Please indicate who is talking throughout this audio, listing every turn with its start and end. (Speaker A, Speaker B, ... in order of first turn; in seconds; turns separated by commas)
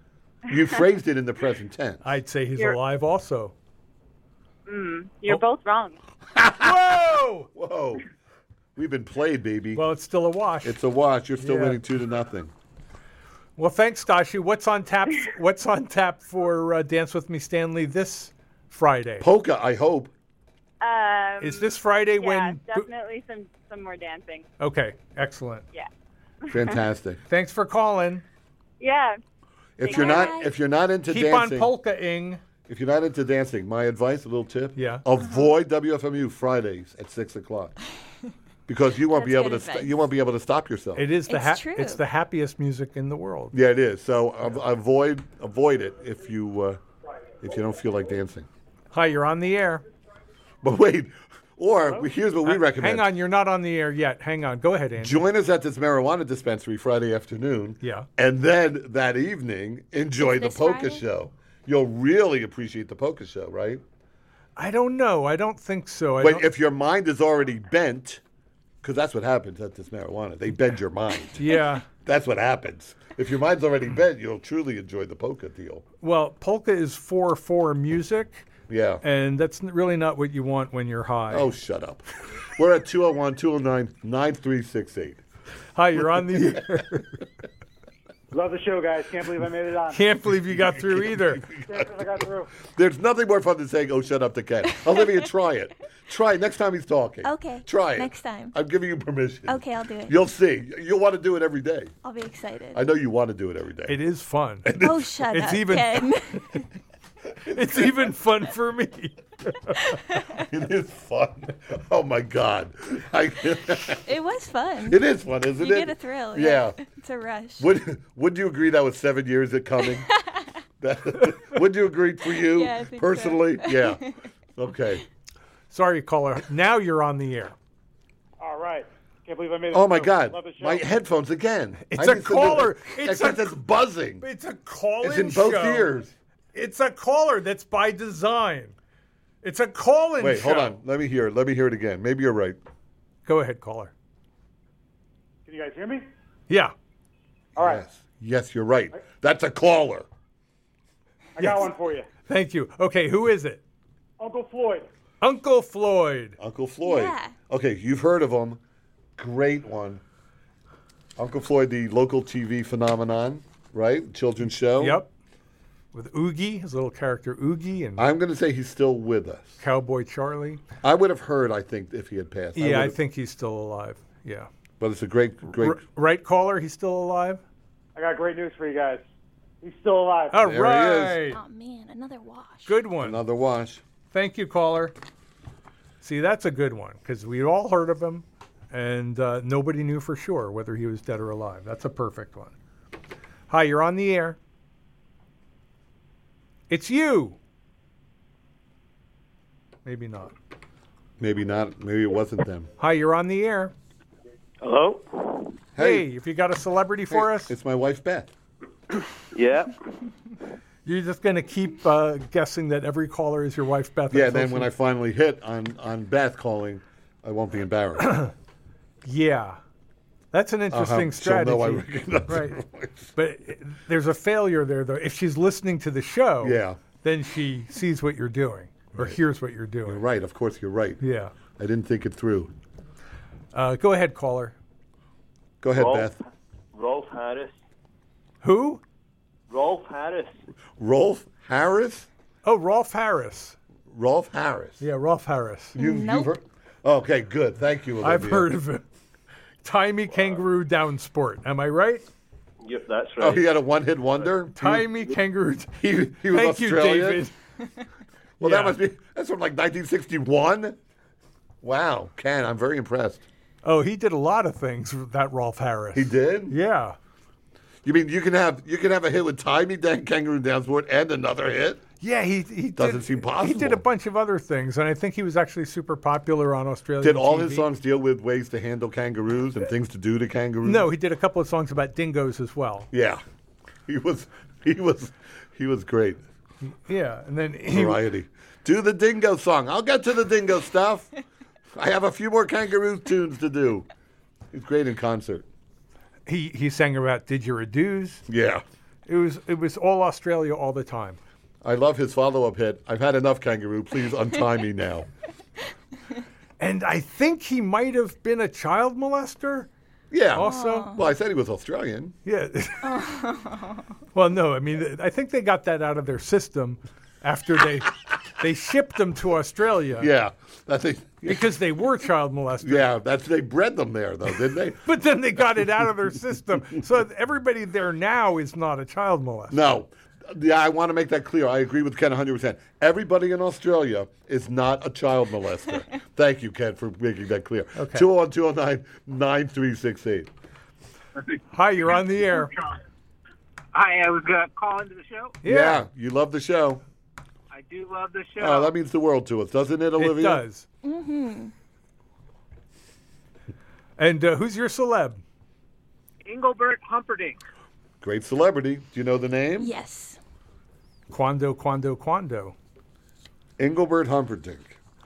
Speaker A: 0.5-2.0, Speaker B: 2.0-3.5, Speaker C: 4.7-6.0, Speaker A: 6.3-6.8, Speaker B: 6.6-7.5, Speaker A: 7.5-8.0, Speaker A: 8.8-9.8, Speaker B: 9.7-10.8, Speaker A: 10.6-12.5, Speaker B: 11.4-11.8, Speaker B: 13.6-19.3, Speaker A: 19.2-20.1, Speaker C: 20.8-24.5, Speaker B: 21.4-22.9, Speaker B: 24.6-25.6, Speaker C: 26.5-26.8, Speaker A: 26.5-27.2, Speaker B: 27.3-28.2, Speaker C: 28.8-29.2, Speaker A: 29.8-31.7, Speaker C: 29.8-30.4, Speaker D: 29.9-30.5, Speaker B: 31.1-32.4, Speaker A: 32.7-37.7, Speaker B: 34.8-35.0, Speaker D: 35.2-35.5, Speaker A: 38.7-41.1, Speaker D: 39.1-40.0, Speaker B: 41.0-43.5, Speaker D: 41.3-42.0, Speaker A: 43.5-46.8, Speaker A: 47.4-48.5, Speaker B: 48.9-49.8, Speaker A: 50.6-53.1, Speaker B: 52.4-55.2, Speaker A: 55.0-63.8, Speaker B: 57.8-58.1, Speaker D: 60.2-61.0, Speaker B: 64.5-66.5, Speaker A: 66.2-68.2, Speaker A: 68.8-75.8, Speaker B: 71.4-71.8, Speaker B: 76.0-78.5, Speaker A: 78.7-79.0, Speaker B: 79.0-81.5, Speaker A: 81.3-85.2, Speaker B: 85.7-87.2, Speaker A: 86.0-86.6, Speaker E: 88.3-90.0, Speaker B: 89.9-91.5, Speaker A: 90.7-101.9, Speaker E: 91.7-92.5, Speaker D: 97.2-98.5, Speaker D: 99.5-100.2, Speaker D: 102.0-102.8, Speaker A: 102.7-104.0, Speaker B: 103.9-106.6, Speaker A: 104.7-105.1, Speaker D: 104.8-106.6, Speaker A: 107.5-108.1, Speaker B: 107.5-109.9, Speaker A: 110.3-114.0, Speaker D: 114.0-115.0, Speaker A: 114.9-116.8, Speaker D: 115.6-117.7, Speaker A: 117.6-120.1, Speaker D: 120.0-120.5, Speaker A: 120.8-124.0, Speaker D: 122.3-124.2, Speaker A: 124.5-125.0, Speaker B: 125.7-127.5, Speaker E: 128.4-130.9, Speaker A: 129.7-134.2, Speaker B: 131.9-133.6, Speaker B: 134.2-135.9, Speaker A: 135.0-136.1, Speaker B: 136.5-138.8, Speaker B: 139.4-140.8, Speaker A: 140.2-142.6, Speaker B: 143.2-143.9, Speaker E: 145.4-146.1, Speaker B: 146.5-146.7, Speaker E: 147.6-147.8, Speaker A: 147.6-150.1, Speaker E: 151.4-152.1, Speaker B: 151.4-151.7, Speaker B: 152.3-153.6, Speaker E: 154.2-154.9, Speaker B: 155.2-156.4, Speaker A: 156.4-158.6, Speaker D: 156.8-157.3, Speaker A: 159.2-160.0, Speaker A: 161.2-165.0, Speaker B: 164.8-165.1, Speaker B: 165.9-168.1, Speaker A: 168.0-169.6, Speaker B: 169.6-170.6, Speaker A: 170.8-173.0, Speaker B: 172.6-174.5, Speaker A: 174.8-175.8, Speaker B: 175.6-177.4, Speaker E: 177.9-179.0, Speaker E: 179.6-180.5, Speaker B: 180.3-181.4, Speaker A: 180.4-181.2, Speaker D: 181.3-182.8, Speaker B: 182.7-183.2, Speaker A: 183.0-183.8, Speaker B: 184.1-184.9, Speaker B: 186.0-192.5, Speaker B: 193.5-194.4, Speaker B: 196.7-197.4, Speaker B: 199.8-200.3, Speaker A: 201.2-202.7, Speaker B: 202.8-203.7, Speaker A: 205.8-206.1, Speaker B: 205.8-207.5, Speaker A: 207.1-208.3, Speaker F: 209.3-209.7, Speaker B: 210.8-214.7, Speaker A: 214.1-218.1, Speaker B: 218.0-218.3, Speaker B: 219.0-219.6, Speaker B: 220.3-222.6, Speaker A: 220.7-223.1, Speaker B: 223.2-230.0, Speaker A: 226.4-226.8, Speaker A: 229.8-231.0, Speaker B: 231.0-231.3, Speaker A: 231.6-232.5, Speaker B: 233.5-234.5, Speaker A: 235.6-236.2, Speaker F: 235.7-236.1, Speaker F: 236.7-237.5, Speaker B: 238.4-238.8, Speaker F: 239.5-240.4, Speaker A: 240.8-242.1, Speaker B: 242.4-243.6, Speaker A: 243.9-244.8, Speaker B: 244.8-245.8, Speaker A: 245.7-248.5, Speaker D: 245.8-246.3, Speaker B: 248.0-248.8, Speaker B: 249.6-252.0, Speaker F: 252.6-253.5, Speaker A: 253.2-254.9, Speaker B: 254.5-257.4, Speaker A: 255.8-257.3, Speaker A: 258.4-260.8, Speaker B: 258.4-258.8, Speaker A: 261.6-263.2, Speaker B: 263.6-266.9, Speaker A: 265.9-266.6, Speaker A: 267.8-271.8, Speaker B: 272.0-277.7, Speaker A: 272.8-273.8, Speaker A: 277.0-280.9, Speaker B: 280.6-282.9, Speaker A: 282.9-283.2, Speaker A: 283.9-286.2, Speaker B: 286.6-288.0, Speaker A: 287.7-291.1, Speaker A: 291.7-293.9, Speaker A: 294.5-295.4, Speaker B: 296.3-298.2, Speaker A: 298.3-298.6, Speaker B: 299.1-301.2, Speaker A: 301.6-305.1, Speaker B: 306.6-309.7, Speaker A: 310.1-312.1, Speaker B: 310.3-310.9, Speaker D: 310.4-311.0, Speaker B: 312.2-313.1, Speaker D: 312.8-313.9, Speaker B: 314.1-320.1, Speaker A: 320.0-321.5, Speaker B: 321.2-322.9, Speaker A: 322.6-324.8, Speaker B: 324.8-329.6, Speaker A: 329.5-340.3, Speaker B: 337.8-338.1, Speaker B: 341.5-342.5, Speaker G: 343.7-345.4, Speaker B: 345.4-345.8, Speaker A: 345.4-346.8, Speaker G: 347.5-348.8, Speaker A: 348.4-350.4, Speaker B: 350.0-350.6, Speaker D: 350.8-351.5, Speaker B: 354.0-355.2, Speaker G: 356.2-357.4, Speaker A: 358.0-359.7, Speaker D: 359.6-360.2, Speaker B: 361.1-362.5, Speaker A: 363.6-364.8